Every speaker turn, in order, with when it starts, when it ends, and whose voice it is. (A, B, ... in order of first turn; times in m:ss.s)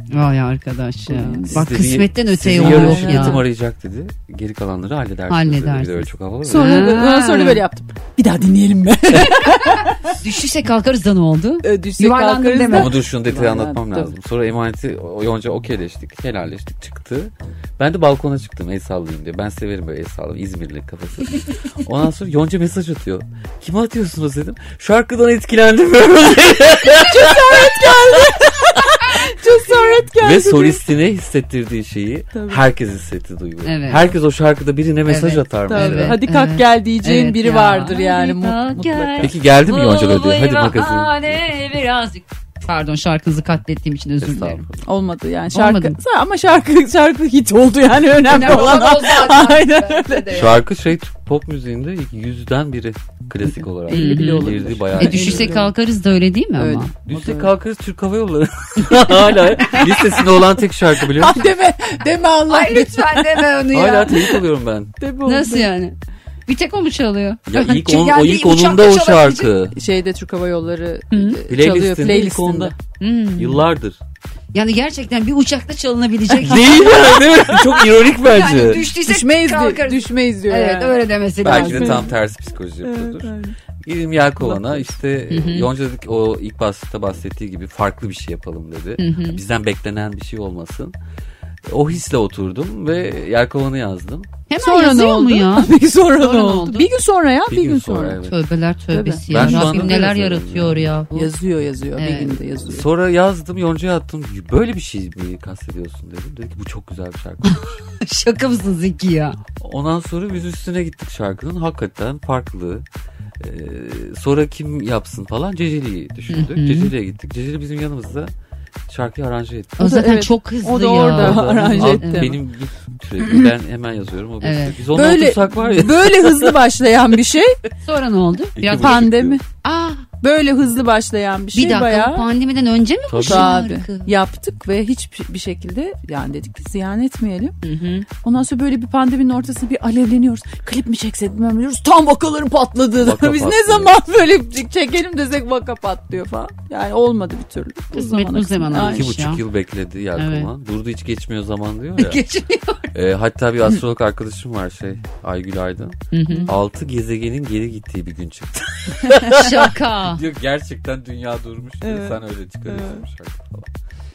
0:00.1-0:03.4 A
0:01.1-0:01.6 B
0:01.4-0:06.9 C
0:02.5-0:03.4 B
0:05.3-0:07.6 A
0:06.5-0:10.1 B
0:10.1-0:12.9 A
0:11.6-0:14.1 B
0:12.7-0:28.4 C
0:27.0-0:30.8 B
0:30.2-0:36.2 C
0:32.3-0:32.6 B
0:33.6-0:34.1 A
0:35.1-0:44.6 A
0:35.7-0:39.3 B
0:39.2-0:41.4 C
0:44.2-0:44.7 C
0:44.8-0:50.5 B
0:45.5-0:46.0 A
0:48.3-0:50.6 A
0:50.3-0:55.5 C
0:53.9-0:55.7 B
0:53.9-0:56.9 A
0:56.6-0:57.5 B
0:57.1-1:01.4 C
0:59.7-1:00.4 B
1:01.2-1:03.5 B
1:02.5-1:04.2 A
1:03.7-1:04.9 C
1:04.1-1:04.4 B
1:05.0-1:05.7 B
1:05.3-1:06.0 A
1:06.5-1:09.5 A
1:07.5-1:09.8 C
1:09.8-1:12.7 B
1:11.1-1:11.4 A
1:11.5-1:12.8 C
1:13.0-1:13.6 A
1:13.4-1:14.0 C
1:14.5-1:16.9 A
1:16.3-1:18.8 C
1:16.7-1:17.7 B
1:18.2-1:22.1 A
1:18.8-1:22.1 B
1:21.4-1:30.9 C
1:22.8-1:23.6 B
1:24.4-1:24.9 B
1:25.3-1:25.7 A
1:29.0-1:29.4 A
1:31.7-1:34.3 C
1:34.5-1:36.9 A
1:34.6-1:38.2 B
1:37.5-1:38.4 C
1:38.2-1:41.3 A
1:38.9-1:39.9 B
1:39.3-1:40.9 C
1:41.1-1:42.9 B
1:42.0-1:42.4 A
1:42.7-1:47.8 C
1:47.4-1:49.4 A
1:49.6-1:52.9 C
1:53.4-1:58.3 C
1:56.3-1:56.9 A
1:58.9-2:00.0 C
1:59.8-2:02.3 A
1:59.8-2:02.4 B
2:01.1-2:06.6 C
2:04.4-2:04.8 A
2:04.9-2:07.6 B
2:07.8-2:09.0 A
2:08.6-2:09.4 C
2:08.8-2:09.4 B
2:09.6-2:10.1 A
2:10.2-2:12.3 B
2:11.5-2:14.1 A
2:13.1-2:13.5 C
2:13.2-2:17.6 B
2:17.6-2:18.1 A
2:18.2-2:29.1 B
2:23.0-2:24.0 C
2:27.9-2:29.4 A
2:28.7-2:32.2 C
2:30.2-2:30.5 A
2:32.0-2:32.9 A
2:32.9-2:43.7 C
2:36.1-2:36.5 A
2:39.3-2:40.2 A
2:41.8-2:43.0 B